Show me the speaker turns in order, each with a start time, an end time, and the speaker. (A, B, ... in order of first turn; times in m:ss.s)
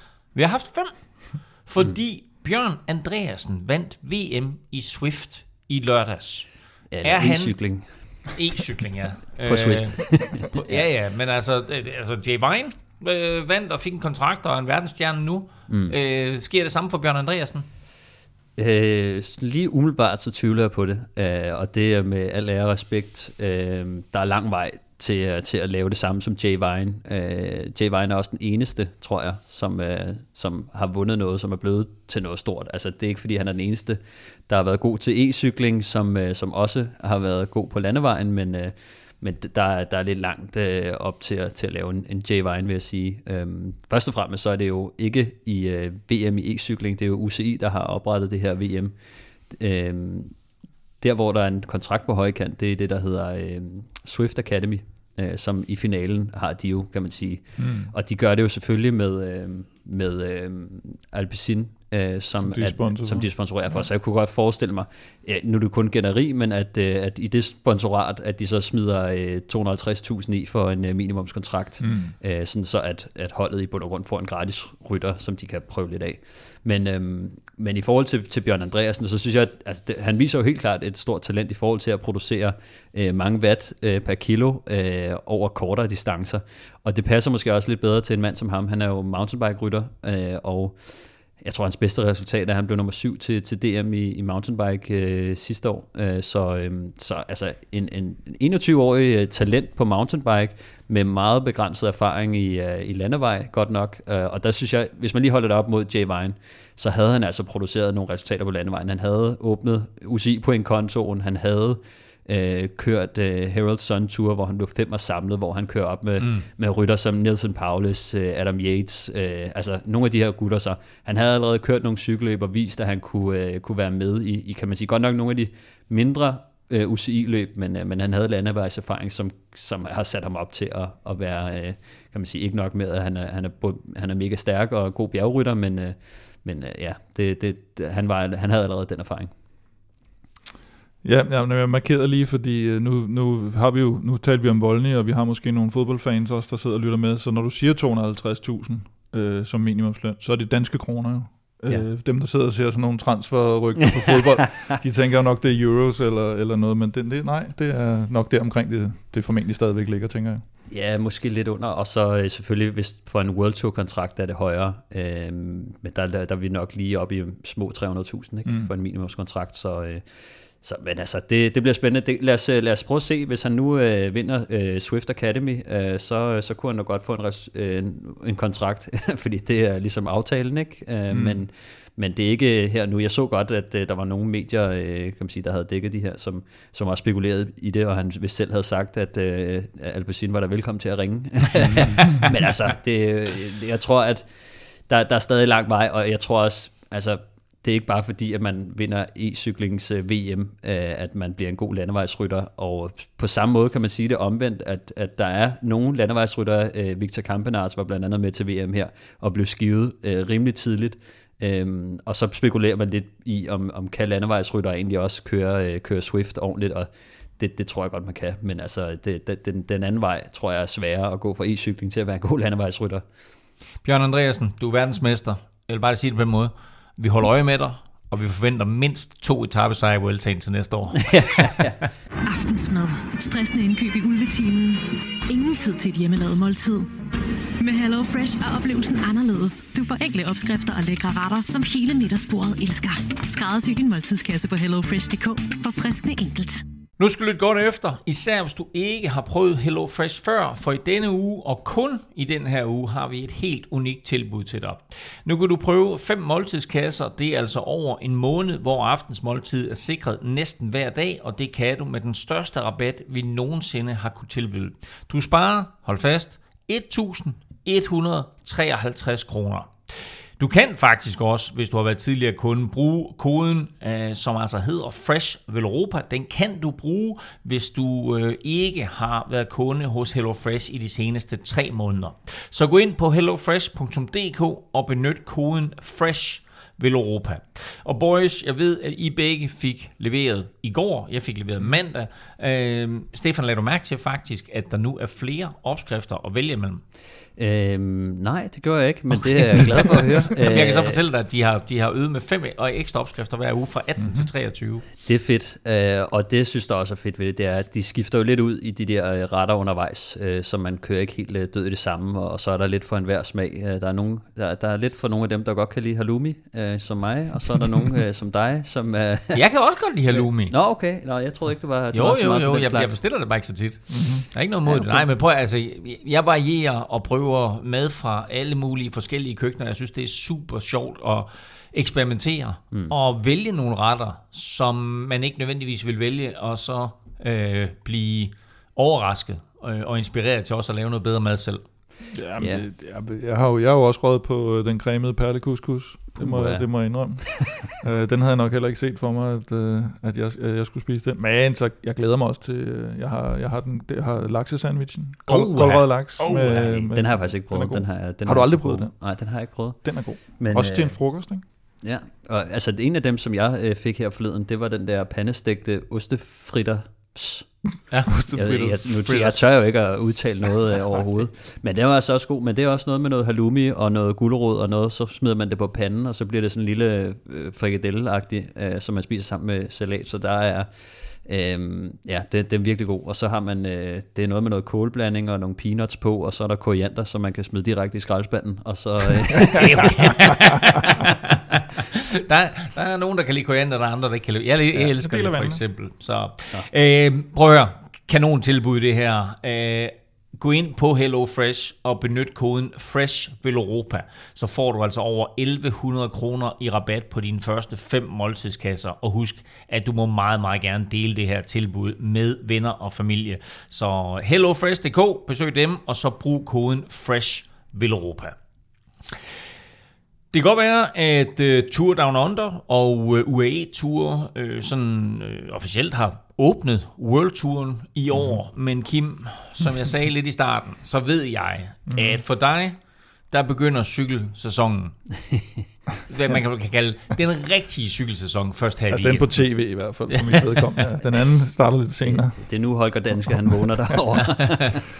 0:00.3-0:17.6 A
0:06.9-0:08.3 B
0:09.4-0:10.9 B
0:15.7-0:16.0 B
0:18.6-0:49.0 B
0:49.5-0:50.3 B
0:51.0-2:19.3 B
0:57.6-0:57.9 C
1:02.4-1:03.9 C
1:11.8-1:12.1 C
1:56.2-1:56.5 A
2:21.0-2:40.4 C
2:33.9-2:34.4 B
2:40.7-3:43.0 B
3:01.1-3:01.4 C
3:43.8-3:51.7 A
3:51.0-3:51.8 B
3:52.2-3:56.9 D
3:57.6-4:06.6 D
4:07.0-4:56.8 A
4:57.4-5:01.0 B
4:59.5-5:04.8 A
5:04.0-5:04.3 C
5:05.0-5:19.4 B
5:19.3-5:20.5 A
5:20.1-5:23.0 B
5:21.9-5:41.6 A
5:23.9-5:24.3 C
5:24.6-5:25.1 B
5:42.1-6:01.4 C
5:42.4-5:42.6 B
5:46.2-5:46.7 B
5:47.4-5:47.6 B
5:55.3-5:56.3 A
5:56.2-6:01.0 B
6:01.8-6:07.8 B
6:07.9-6:09.4 A
6:08.1-6:09.0 C
6:08.3-6:30.3 B
6:29.5-6:58.4 A
6:34.8-6:35.6 C
7:00.3-7:12.8 A
7:11.9-7:12.2 C
7:13.3-7:15.0 A
7:15.3-7:15.6 B
7:16.1-7:19.4 A
7:18.9-7:24.0 C
7:22.0-7:24.8 B